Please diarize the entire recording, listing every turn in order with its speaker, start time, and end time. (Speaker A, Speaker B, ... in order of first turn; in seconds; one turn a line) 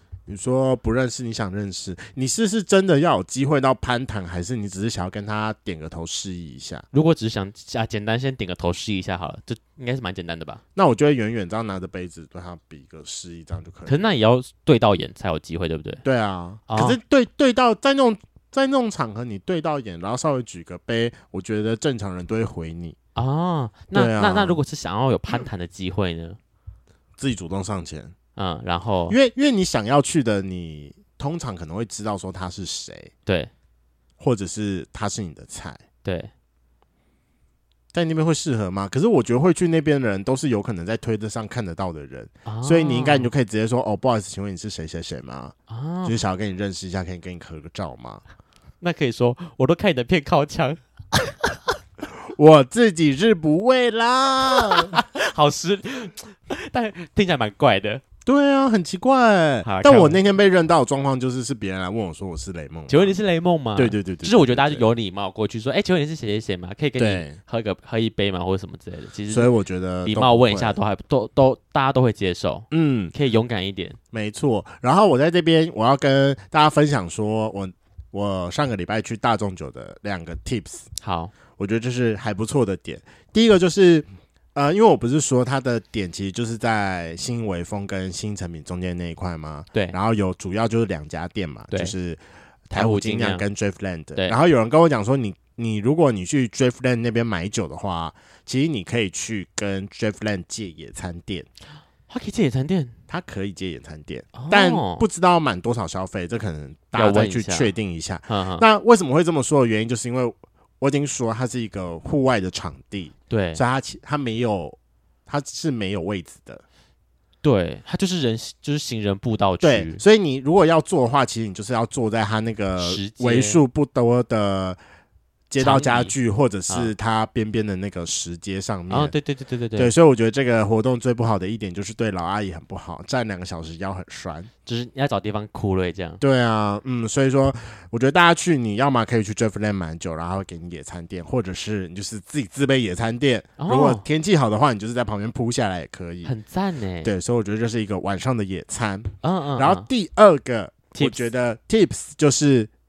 Speaker A: 0.3-6.8
Speaker B: 6.9-10.6
Speaker A: 10.7-14.0
Speaker B: 13.9-16.0
Speaker A: 16.0-22.9
Speaker B: 16.7-17.0
Speaker B: 23.1-26.4
Speaker A: 23.9-24.6
Speaker A: 27.2-28.1
Speaker B: 28.4-29.1
Speaker A: 29.1-33.1
Speaker B: 33.2-33.5
Speaker A: 34.2-35.8
Speaker B: 36.0-36.3
Speaker A: 37.9-48.2
Speaker B: 42.5-43.3
Speaker B: 45.7-46.1
Speaker B: 48.8-51.7
Speaker A: 52.3-55.0
Speaker B: 54.5-58.0
Speaker A: 58.2-63.1
Speaker B: 59.6-60.2
Speaker B: 62.9-69.5
Speaker A: 63.8-64.8
Speaker A: 67.0-67.4
Speaker A: 69.3-70.8
Speaker B: 70.0-74.0
Speaker A: 72.7-73.1
Speaker A: 74.1-80.9
Speaker B: 81.0-81.3
Speaker A: 81.6-101.5
Speaker B: 92.7-93.4
Speaker B: 102.1-103.0
Speaker A: 103.1-116.6
Speaker B: 104.3-105.0
Speaker B: 106.9-107.7
Speaker B: 108.3-108.6
Speaker B: 113.3-113.6
Speaker B: 117.4-120.0
Speaker A: 119.6-124.8
Speaker B: 122.8-123.6
Speaker A: 125.5-129.1
Speaker B: 125.6-126.1
Speaker B: 128.9-129.9
Speaker A: 129.8-134.5
Speaker B: 134.7-136.2
Speaker A: 136.2-146.3
Speaker B: 143.6-144.0
Speaker B: 146.2-147.1
Speaker A: 147.0-152.7
Speaker B: 149.2-149.9
Speaker B: 150.9-151.2